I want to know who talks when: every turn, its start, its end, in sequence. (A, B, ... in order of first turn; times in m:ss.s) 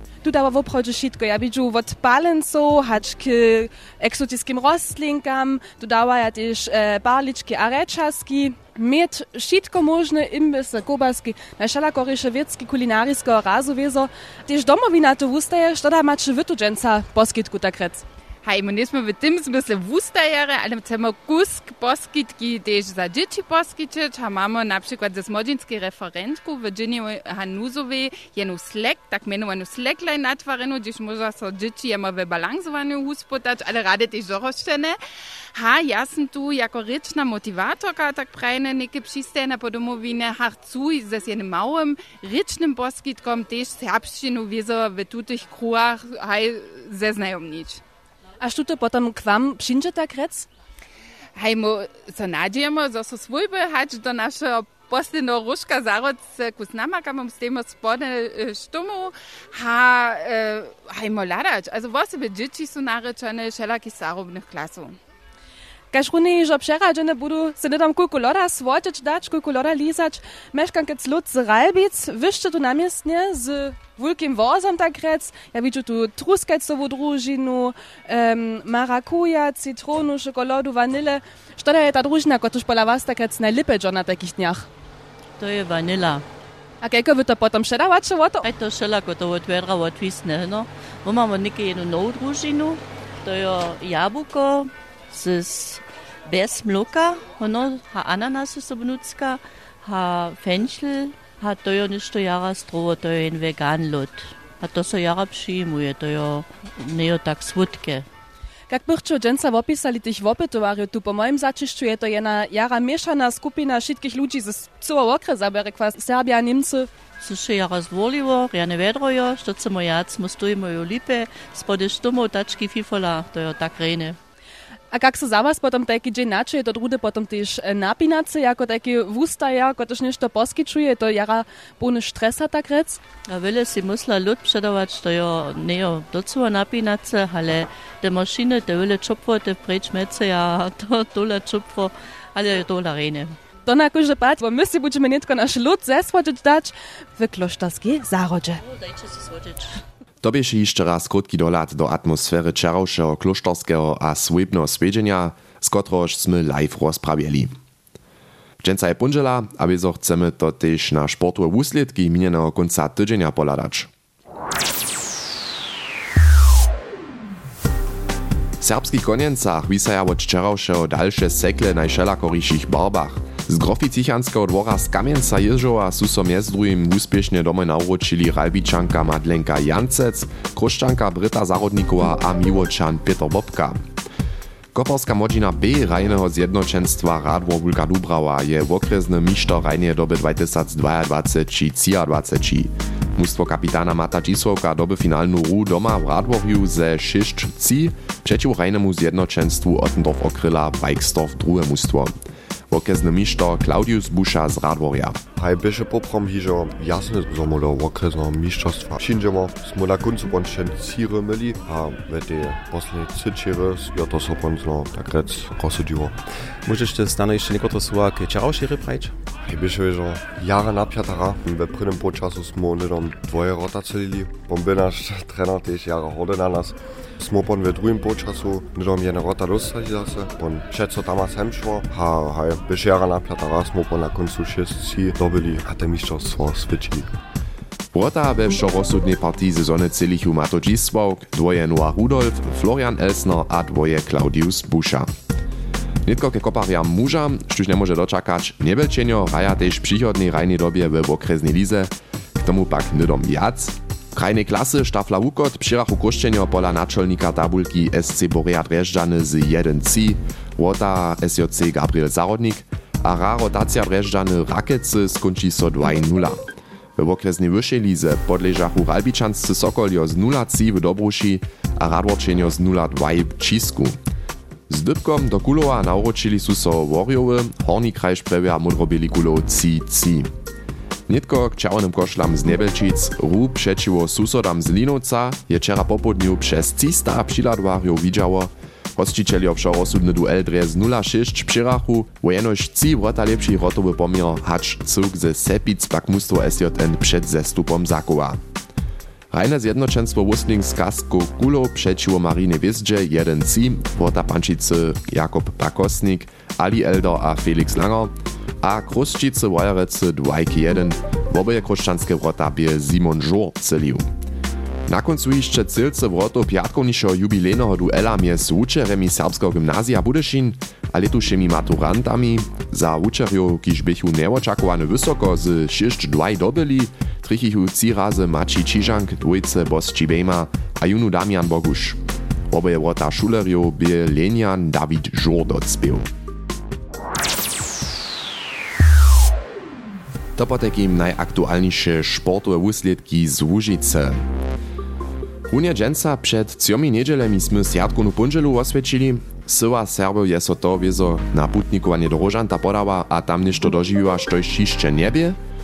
0:00.2-0:18.0 A
0:18.4-0:35.0 B
0:35.5-0:47.8 B
0:48.4-0:50.5 A
0:51.4-1:05.0 B
1:05.9-1:24.7 A
1:25.4-1:26.2 C
1:26.8-1:28.5 A
1:28.4-1:48.1 C
1:48.7-1:56.9 A
1:57.2-2:04.2 C
2:04.9-2:13.0 A
2:13.3-2:23.4 C
2:23.6-2:28.6 A
2:28.6-2:29.8 C
2:30.2-2:37.5 D
2:38.6-2:43.9 D
2:48.6-3:03.8 D
3:04.7-3:22.1 D
3:22.7-3:25.2 D
3:25.4-3:36.2 E
3:36.6-3:39.1 F
3:39.4-3:57.1 E
3:57.9-4:05.1 D
4:06.0-4:26.4 D
4:27.0-4:34.0 D
4:34.7-4:40.3 D
4:41.1-4:58.4 D
4:59.3-5:14.1 D
5:14.9-5:36.0 D
5:40.4-5:44.2 D
5:45.5-5:55.4 D